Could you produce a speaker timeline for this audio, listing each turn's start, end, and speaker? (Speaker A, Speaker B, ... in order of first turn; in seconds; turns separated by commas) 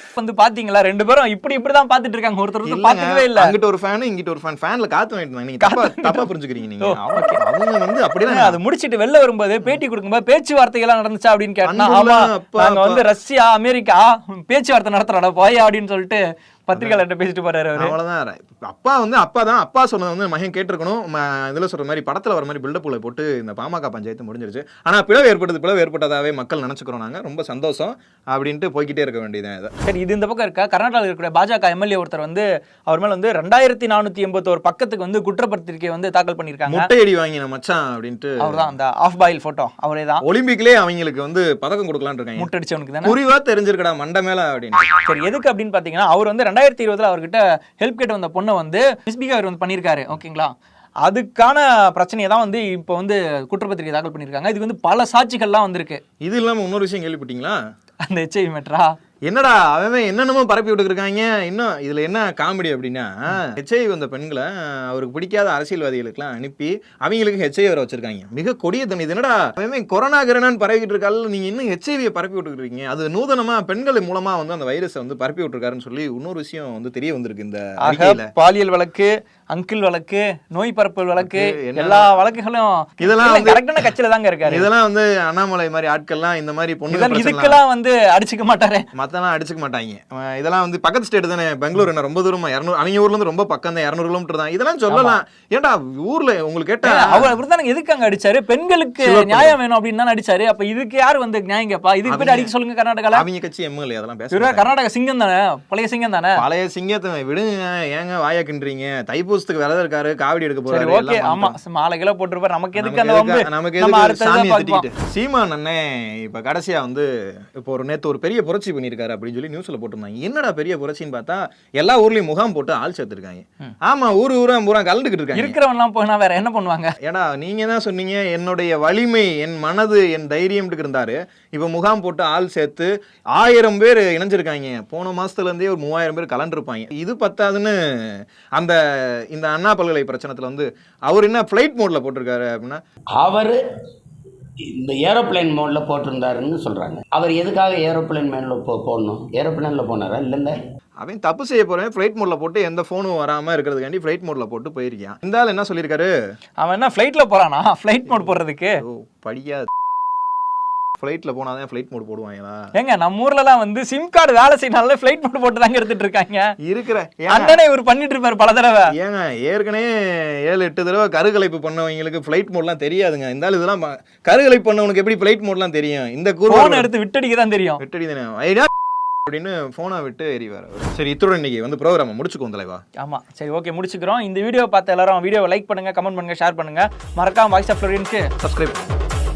Speaker A: 0.2-3.5, Speaker B: 2.6-8.6, Speaker A: 5.6-6.3, Speaker A: 6.8-7.4, Speaker A: 8.3-17.9, Speaker B: 11.7-13.0, Speaker B: 16.8-17.0, Speaker B: 17.8-29.7, Speaker A: 29.8-36.9, Speaker B: 36.7-38.8, Speaker A: 38.4-40.2, Speaker B: 40.2-42.5, Speaker A: 42.4-43.2, Speaker B: 43.0-44.9, Speaker A: 45.0-50.5, Speaker A: 51.0-56.0, Speaker B: 56.2-57.6, Speaker A: 58.0-59.0, Speaker B: 59.3-78.3, Speaker A: 77.9-84.7, Speaker B: 81.2-82.2, Speaker B: 83.0-83.7, Speaker B: 84.5-87.6, Speaker A: 86.9-88.9, Speaker B: 89.0-97.4, Speaker A: 94.9-95.2, Speaker A: 96.8-103.2, Speaker B: 99.0-99.6, Speaker B: 102.1-102.5, Speaker B: 103.1-104.7, Speaker A: 104.3-106.4, Speaker B: 106.4-111.6, Speaker A: 110.7-114.9, Speaker B: 112.8-125.6, Speaker A: 125.3-126.9, Speaker B: 127.0-142.8, Speaker C: 143.2-143.6, Speaker C: 144.7-150.6, Speaker B: 151.0-156.1, Speaker A: 156.6-158.8, Speaker B: 158.1-159.7, Speaker B: 161.0-162.7, Speaker A: 162.8-166.5, Speaker B: 166.6-167.6, Speaker A: 167.3-168.9, Speaker B: 168.9-176.9, Speaker A: 176.5-177.8, Speaker B: 177.8-178.7, Speaker B: 179.3-182.8, Speaker A: 183.0-188.3, Speaker B: 188.4-189.0